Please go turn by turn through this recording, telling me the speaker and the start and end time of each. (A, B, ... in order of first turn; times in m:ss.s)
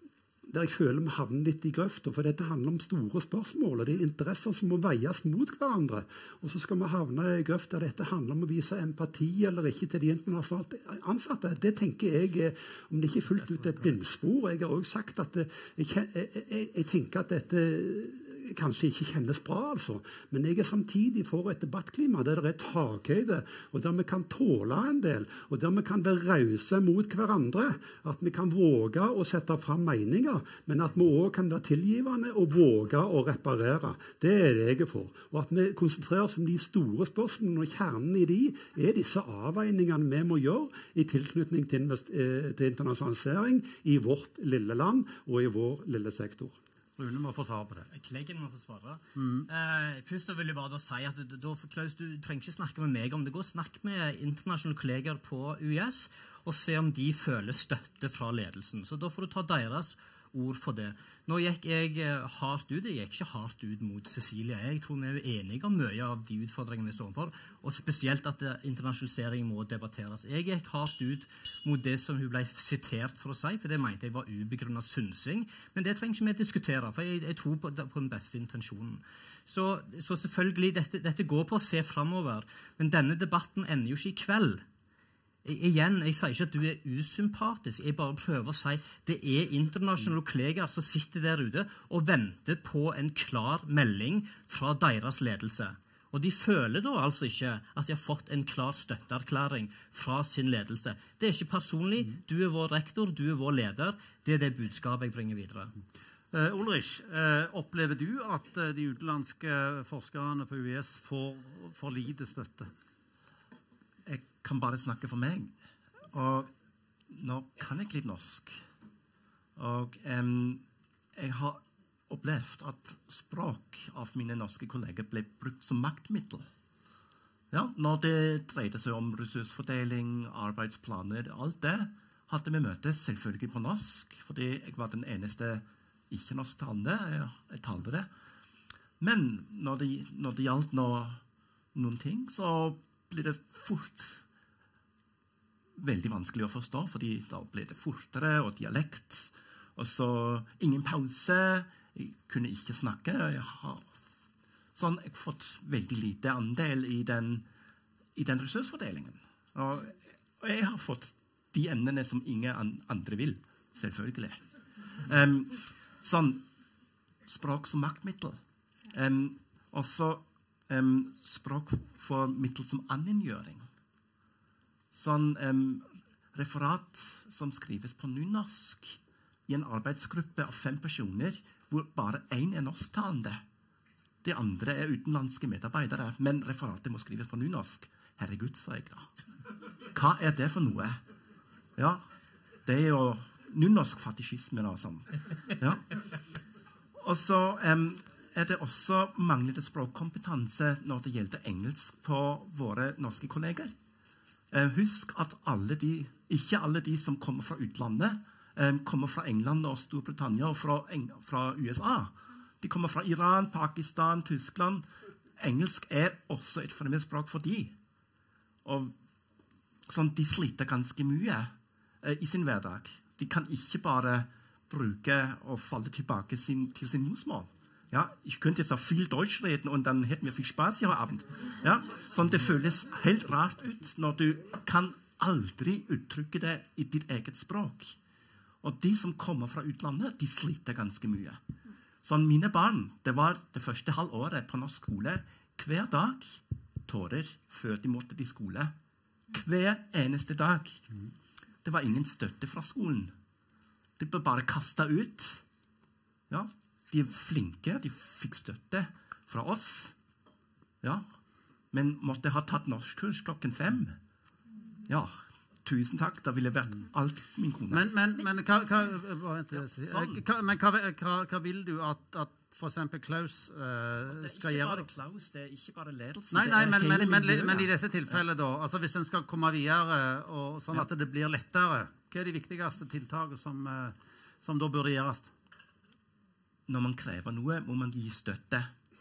0:00.5-0:46.6 A
0:47.0-0:47.9 B
0:47.9-1:24.6 C
0:49.2-0:49.5 B
1:25.4-1:45.7 C
1:46.3-1:52.7 B
1:54.0-1:55.5 D
1:56.1-1:56.5 D
1:57.1-1:58.6 D
1:59.6-2:06.5 D
2:07.5-2:18.1 D
2:19.0-2:21.2 D
2:21.7-2:24.2 D
2:25.8-2:33.9 D
2:34.7-2:37.4 D
2:38.1-2:44.4 D
2:45.0-2:46.4 D
2:47.2-2:48.4 D
2:48.9-2:53.6 D
2:54.9-3:03.4 D
3:04.2-3:09.1 D
3:09.9-3:11.0 D
3:11.8-3:12.1 D
3:12.6-3:16.0 D
3:17.0-3:23.8 D
3:24.5-3:37.8 D
3:38.6-3:38.9 D
3:39.9-3:58.0 D
3:58.6-4:01.4 D
4:02.0-4:08.7 D
4:09.3-4:10.9 D
4:11.6-4:13.1 D
4:14.0-4:15.4 D
4:16.3-4:19.9 D
4:20.8-4:21.1 D
4:21.7-4:24.0 D
4:24.9-4:27.9 D
4:27.7-4:34.8 B
4:29.5-4:30.2 D
4:34.1-4:38.2 D
4:36.3-4:45.3 B
4:46.7-4:48.7 D